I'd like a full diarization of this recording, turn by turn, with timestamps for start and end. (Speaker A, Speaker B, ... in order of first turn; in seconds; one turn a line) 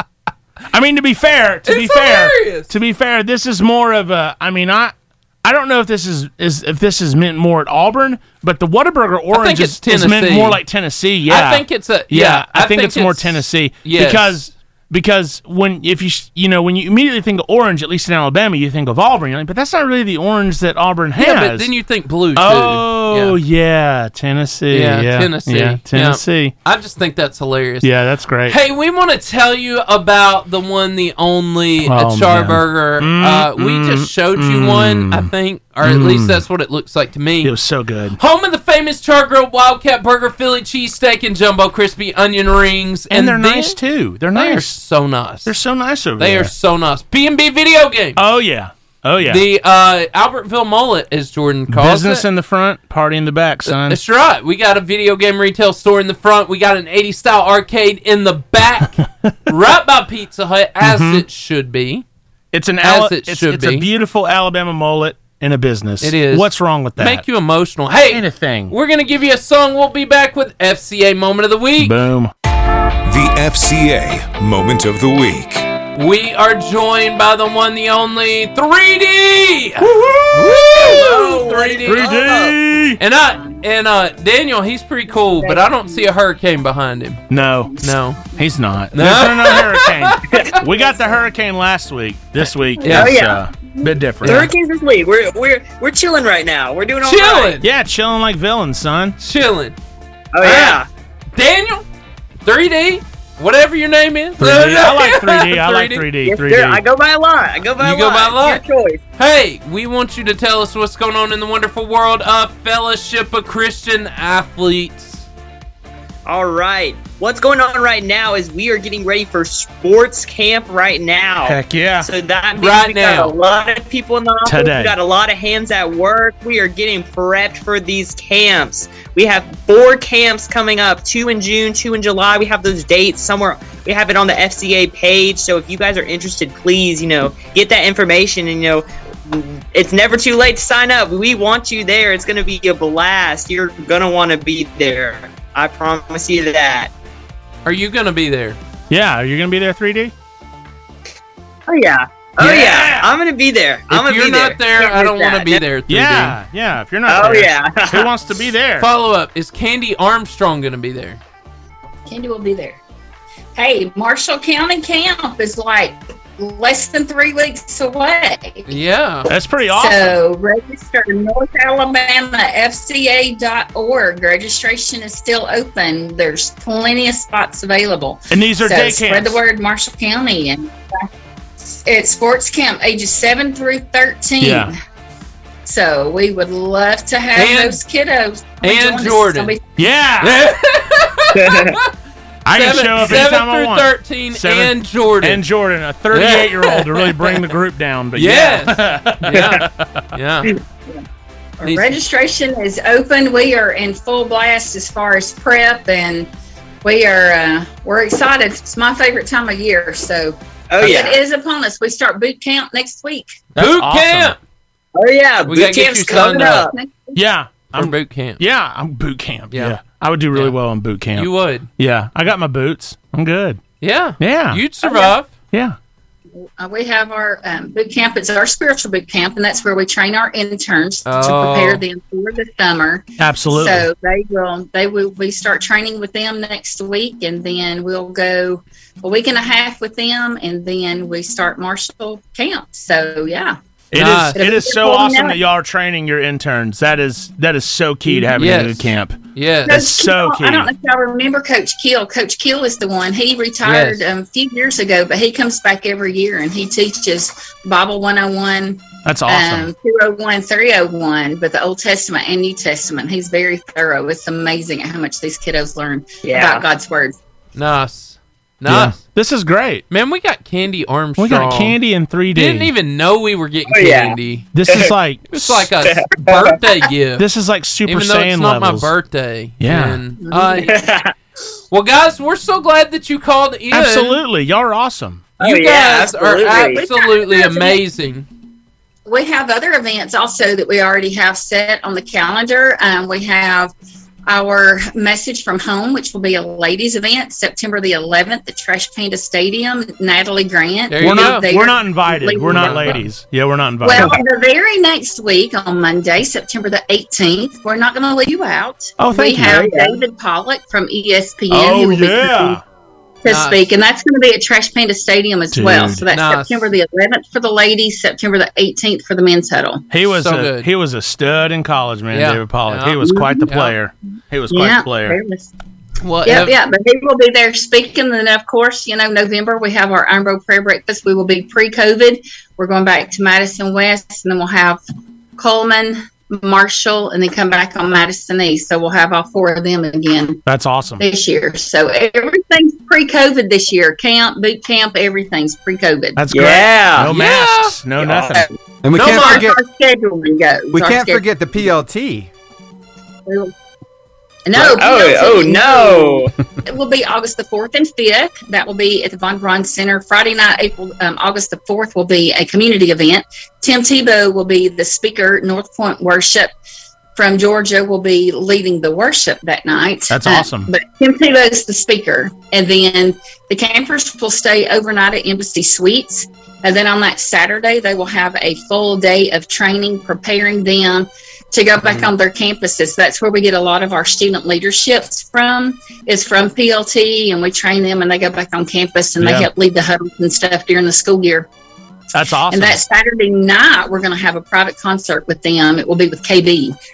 Speaker A: 0.7-21.7
Speaker B: 1.7-2.7
Speaker B: 9.3-10.6
Speaker B: 11.3-14.4
Speaker B: 21.2-23.4
Speaker A: 22.3-26.5
Speaker B: 24.7-27.9
Speaker A: 27.8-28.6
Speaker B: 28.5-37.5
Speaker A: 31.8-35.3
Speaker A: 35.8-36.4
Speaker A: 37.4-38.2
Speaker B: 38.2-43.8
Speaker A: 43.1-44.8
Speaker B: 44.3-45.5
Speaker A: 45.4-46.5
Speaker B: 46.2-48.2
Speaker A: 48.2-49.4
Speaker B: 49.2-52.2
Speaker A: 51.7-54.0
Speaker B: 53.6-62.0
Speaker A: 60.8-61.2
Speaker A: 62.5-67.2
Speaker B: 62.8-63.9
Speaker B: 66.0-71.9
Speaker A: 68.1-68.7
Speaker A: 71.8-72.3
Speaker C: 73.0-75.7
Speaker B: 75.9-82.1
Speaker D: 79.9-82.6
Speaker A: 80.8-81.0
Speaker A: 81.8-83.0
Speaker B: 83.0-87.2
Speaker D: 85.4-86.0
Speaker A: 87.3-94.5
Speaker B: 87.8-88.2
Speaker B: 88.9-90.6
Speaker B: 92.8-93.1
Speaker D: 92.9-93.5
Speaker D: 94.2-97.6
Speaker B: 94.2-94.5
Speaker B: 97.0-97.7
Speaker A: 97.6-99.2
Speaker B: 99.2-99.8
Speaker D: 100.3-100.9
Speaker B: 100.4-100.8
Speaker B: 101.3-101.8
Speaker B: 102.4-106.1
Speaker A: 104.4-106.8
Speaker D: 106.2-109.0
Speaker B: 107.8-108.6
Speaker B: 109.2-115.3
Speaker D: 116.2-146.9
Speaker A: 121.4-122.1
Speaker B: 122.5-123.3
Speaker A: 124.4-124.9
Speaker B: 147.6-148.6
Speaker A: 148.9-150.1
Speaker D: 151.7-155.6
Speaker A: 152.4-153.1
Speaker B: 153.9-156.4
Speaker A: 155.9-158.9
Speaker D: 157.1-158.1
Speaker B: 158.8-161.2
Speaker E: 162.1-162.8
Speaker E: 163.5-168.7
Speaker B: 168.7-169.3
Speaker A: 169.3-170.2
Speaker E: 169.7-181.1
Speaker A: 178.3-179.4
Speaker E: 181.6-184.7
Speaker A: 184.4-184.7
Speaker E: 185.6-189.6
Speaker B: 187.3-187.8
Speaker B: 188.6-189.6
Speaker A: 189.8-190.4
Speaker B: 190.2-191.9
Speaker D: 191.4-191.7
Speaker A: 192.4-200.1
Speaker B: 192.5-195.4
Speaker B: 196.1-197.4
Speaker B: 198.2-200.5
Speaker E: 201.6-206.3
Speaker B: 201.6-202.0
Speaker E: 206.8-213.3
Speaker D: 210.7-211.2
Speaker A: 213.5-214.3
Speaker B: 213.6-214.4
Speaker D: 214.9-216.7
Speaker B: 215.4-216.6
Speaker E: 216.1-217.2
Speaker A: 217.1-223.6
Speaker B: 217.7-218.4
Speaker B: 219.5-219.8
Speaker B: 221.2-221.7
Speaker B: 223.8-225.3
Speaker A: 224.2-224.6
Speaker E: 224.8-225.1
Speaker E: 226.4-243.6
Speaker B: 231.1-231.8
Speaker A: 233.2-233.9
Speaker A: 243.9-250.7
Speaker B: 243.9-244.4
Speaker E: 244.3-245.4
Speaker B: 248.3-249.8
Speaker E: 249.7-267.2
Speaker B: 253.6-254.1
Speaker A: 259.0-259.7
Speaker D: 266.2-266.6
Speaker B: 267.6-269.0
Speaker A: 268.6-269.8
Speaker B: 269.9-271.8
Speaker A: 271.2-272.7
Speaker B: 272.3-274.5
Speaker D: 273.7-274.2
Speaker A: 274.5-275.7
Speaker B: 275.3-277.3
Speaker D: 275.8-276.6
Speaker A: 277.2-278.9
Speaker B: 277.8-280.8
Speaker A: 279.6-280.0
Speaker E: 280.3-280.6
Speaker D: 280.6-281.1
Speaker B: 281.7-284.2
Speaker A: 283.7-285.3
Speaker D: 285.4-286.9
Speaker B: 285.4-288.3
Speaker E: 287.0-287.8
Speaker E: 289.1-293.7
Speaker E: 294.3-302.9
Speaker B: 300.9-301.5
Speaker A: 301.0-304.1
Speaker B: 302.5-303.1
Speaker E: 303.8-312.6
Speaker A: 309.0-309.6
Speaker D: 309.4-310.0
Speaker A: 311.5-312.6
Speaker E: 313.2-319.8
Speaker B: 313.2-313.7
Speaker A: 315.5-316.0
Speaker B: 316.1-316.7
Speaker A: 319.9-325.2
Speaker B: 320.1-320.7
Speaker B: 322.1-323.7
Speaker E: 323.0-323.5
Speaker E: 324.5-325.5
Speaker B: 326.0-326.5
Speaker E: 326.2-334.8
Speaker E: 335.4-340.4
Speaker A: 340.4-341.0
Speaker E: 341.0-346.2
Speaker A: 346.2-348.5
Speaker D: 346.3-347.1
Speaker B: 347.1-347.8
Speaker D: 348.0-348.5
Speaker F: 348.8-349.6
Speaker B: 348.9-349.4
Speaker E: 348.9-351.2
Speaker F: 350.7-352.3
Speaker E: 353.2-353.5
Speaker E: 354.4-366.5
Speaker D: 354.5-356.3
Speaker E: 367.1-391.5
Speaker A: 370.1-370.7
Speaker A: 389.2-389.5
Speaker A: 392.1-392.8
Speaker E: 392.5-396.7